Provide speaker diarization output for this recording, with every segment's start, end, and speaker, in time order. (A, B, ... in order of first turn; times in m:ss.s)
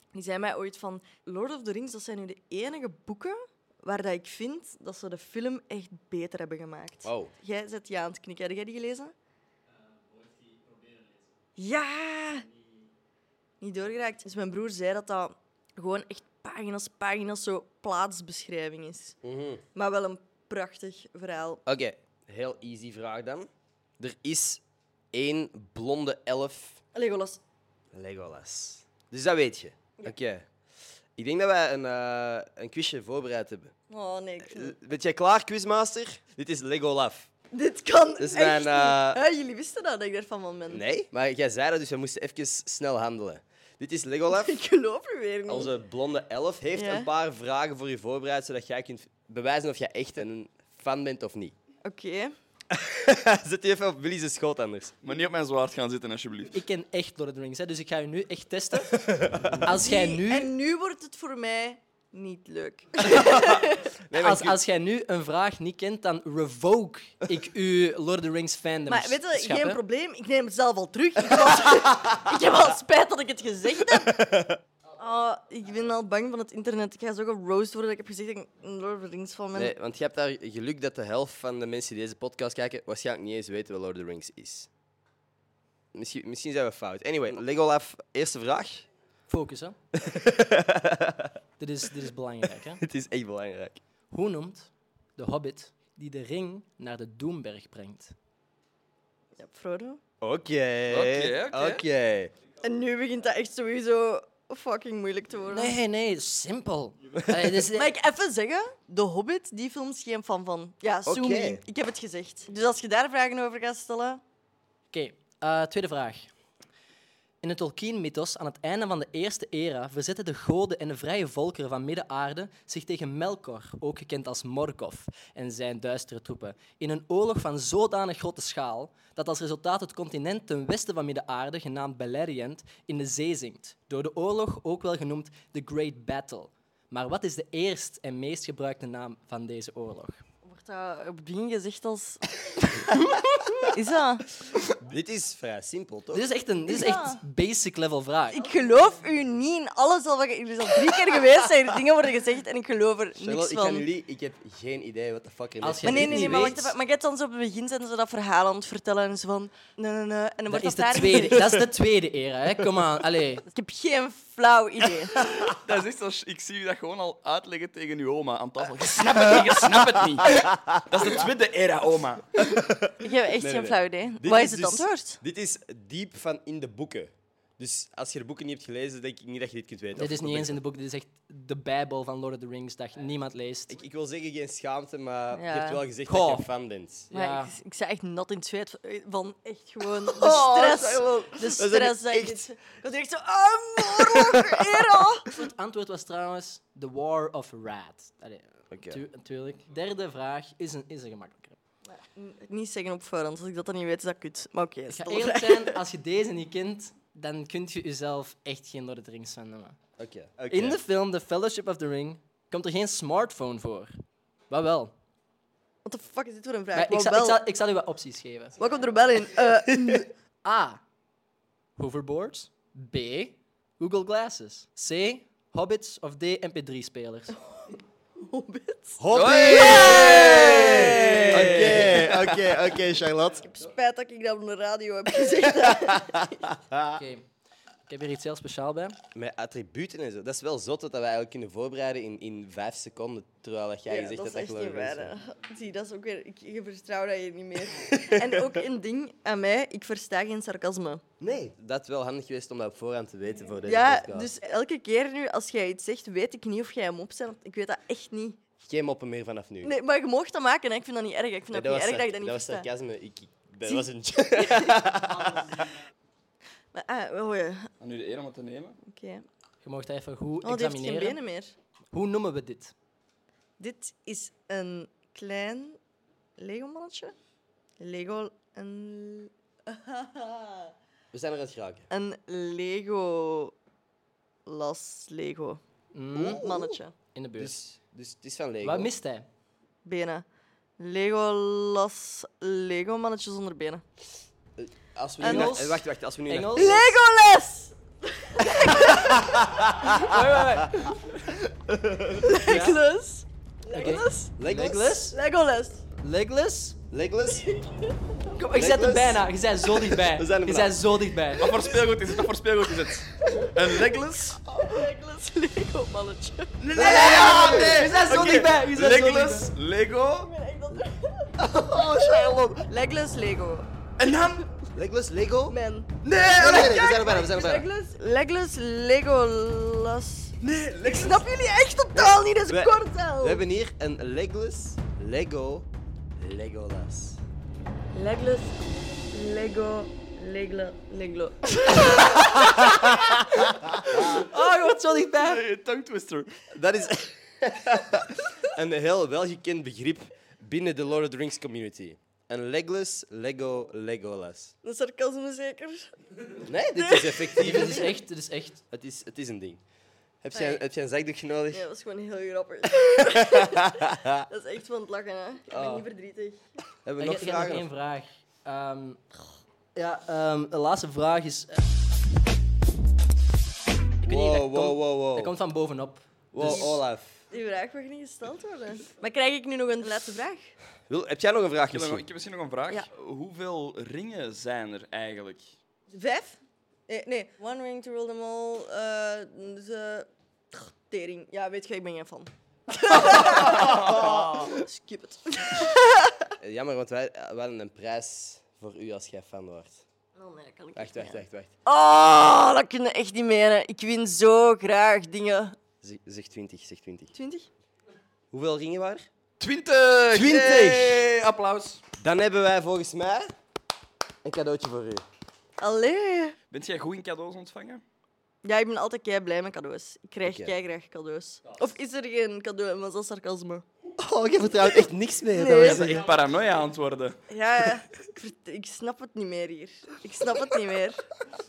0:00.1-0:09.1 A
0:07.0-0:07.3 B
0:11.6-0:12.5 A
0:13.6-0:19.2 A
0:19.2-0:19.6 B
0:19.7-0:21.6 A
0:21.6-0:26.8 B
0:26.9-0:27.4 A
0:27.9-0:30.5 B
0:31.2-0:33.7 B
0:33.9-0:34.7 A
0:34.4-0:37.3 B
0:37.5-0:40.8 A
0:38.2-0:39.2 B
0:40.7-0:44.6 B
0:44.3-0:45.7 A
0:45.5-0:51.5 B
0:46.7-0:47.1 A
0:51.8-0:52.3 A
0:52.7-0:54.9 B
0:55.0-0:56.6 C
0:56.5-0:59.1 D
0:58.9-0:59.7 B
0:59.6-1:00.5 D
0:59.7-1:03.9 A
1:03.2-1:03.4 B
1:04.0-1:04.6 B
1:04.2-1:09.8 D
1:08.9-1:14.3 A
1:14.0-1:14.6 B
1:14.9-1:19.7 A
1:19.5-1:24.7 B
1:25.9-1:28.9 B
1:29.3-1:29.8 D
1:29.9-1:31.3 B
1:31.6-1:32.8 D
1:32.8-1:33.8 B
1:34.1-1:38.1 D
1:39.4-1:40.0 A
1:40.2-1:42.3 B
1:40.9-1:41.8 C
1:42.6-1:45.7 A
1:45.5-1:47.9 D
1:47.7-1:54.2 A
1:51.0-1:51.6 B
1:54.9-1:56.3 D
1:57.4-2:20.2 D
2:20.4-2:24.2 A
2:24.7-2:26.2 B
2:26.1-2:28.5 D
2:26.7-2:27.2 A
2:28.3-2:33.9 A
2:33.2-2:36.6 B
2:35.6-2:36.7 D
2:35.8-2:41.6 A
2:40.5-2:43.4 D
2:43.5-2:45.3 A
2:45.4-2:52.5 C
2:52.6-3:00.6 B
2:53.0-2:55.2 A
3:00.0-3:03.7 D
3:03.7-3:07.1 B
3:05.3-3:05.8 A
3:06.1-3:06.4 D
3:07.1-3:07.5 D
3:07.1-3:15.3 A
3:10.0-3:12.4 B
3:13.8-3:14.8 B
3:15.3-3:21.6 D
3:18.7-3:19.0 B
3:21.9-3:25.8 A
3:24.9-3:29.8 D
3:30.0-3:30.8 B
3:30.5-3:33.9 D
3:34.5-3:34.9 D
3:35.8-3:37.4 A
3:36.7-3:38.6 D
3:38.6-3:40.1 A
3:40.4-3:40.8 D
3:41.8-3:47.4 D
3:47.4-3:49.0 A
3:49.0-3:53.5 B
3:49.1-3:52.2 C
3:49.5-3:51.3 A
3:53.4-3:56.4 A
3:56.1-3:57.0 B
3:56.9-3:57.2 D
3:57.9-3:59.0 D
3:59.1-4:05.2 B
4:03.9-4:11.0 A
4:07.8-4:08.4 B
4:11.2-4:14.3 B
4:13.6-4:18.4 A
4:18.6-4:19.8 B
4:19.6-4:22.7 A
4:21.5-4:25.7 B
4:23.7-4:24.8 A
4:26.7-4:27.7 A
4:27.8-4:28.8 C
4:28.9-4:29.2 A
4:29.6-4:31.2 D
4:30.4-4:31.5 A
4:31.9-4:32.7 D
4:33.6-4:35.8 A
4:36.4-4:37.1 A
4:37.8-4:40.7 A
4:41.1-4:41.9 B
4:41.9-4:43.5 A
4:44.4-4:45.6 A
4:45.9-4:46.4 D
4:46.1-4:46.8 B
4:46.4-4:46.9 A
4:47.1-4:47.6 D
4:47.4-4:48.9 B
4:48.6-4:49.3 D
4:49.8-4:50.2 A
4:50.8-4:53.8 A
4:54.6-4:56.8 B
4:55.2-4:55.6 A
4:55.2-4:57.0 D
4:56.5-4:59.4 A
4:59.0-5:02.8 B
4:59.8-5:00.9 D
5:02.2-5:04.3 A
5:02.5-5:02.8 D
5:03.7-5:05.2 D
5:03.8-5:05.0 B
5:05.1-5:05.8 A
5:06.0-5:06.8 D
5:06.9-5:07.5 B
5:07.3-5:08.0 A
5:08.4-5:11.6 D
5:08.5-5:09.2 B
5:10.0-5:10.8 B
5:11.3-5:14.8 C
5:13.2-5:14.0 A
5:14.6-5:16.6 A
5:16.6-5:20.3 C
5:16.7-5:19.5 D
5:16.9-5:18.0 B
5:20.2-5:23.7 A
5:21.4-5:22.4 B
5:21.7-5:22.3 C
5:24.0-5:24.5 C
5:24.7-5:25.6 B
5:25.5-5:30.3 A
5:26.0-5:27.0 C
5:26.3-5:27.7 B
5:30.4-5:31.2 C
5:30.8-5:33.4 A
5:32.0-5:37.2 B
5:37.9-5:43.0 A
5:43.9-5:45.4 D
5:45.2-5:46.6 C
5:46.5-5:54.5 B
5:54.6-5:55.9 A
5:56.4-5:58.0 B
5:56.7-5:57.4 A
5:57.4-5:58.6 D
5:58.7-5:59.6 B
6:00.2-6:01.6 B
6:00.3-6:00.6 A
6:01.5-6:06.4 A
6:02.8-6:04.2 B
6:05.5-6:05.8 B
6:06.8-6:07.7 B
6:07.0-6:09.0 D
6:09.7-6:11.6 D
6:14.0-6:15.3 B
6:14.0-6:16.7 D
6:16.3-6:17.2 B
6:17.3-6:20.5 A
6:20.9-6:22.0 B
6:21.7-6:25.6 C
6:25.9-6:36.3 A
6:33.4-6:34.2 C
6:33.6-6:34.5 B
6:36.4-6:39.8 B
6:40.2-6:45.6 A
6:40.7-6:41.5 B
6:45.8-6:47.1 B
6:47.1-6:47.5 A
6:48.3-6:49.0 B
6:49.4-6:51.8 C
6:50.1-6:51.0 B
6:52.0-6:53.3 B
6:54.2-6:55.0 B
6:55.6-6:56.4 A
6:56.5-6:57.8 C
6:58.4-7:03.6 A
7:00.2-7:00.5 B
7:04.0-7:06.1 B
7:05.3-7:06.0 A
7:05.5-7:07.2 C
7:07.3-7:11.0 A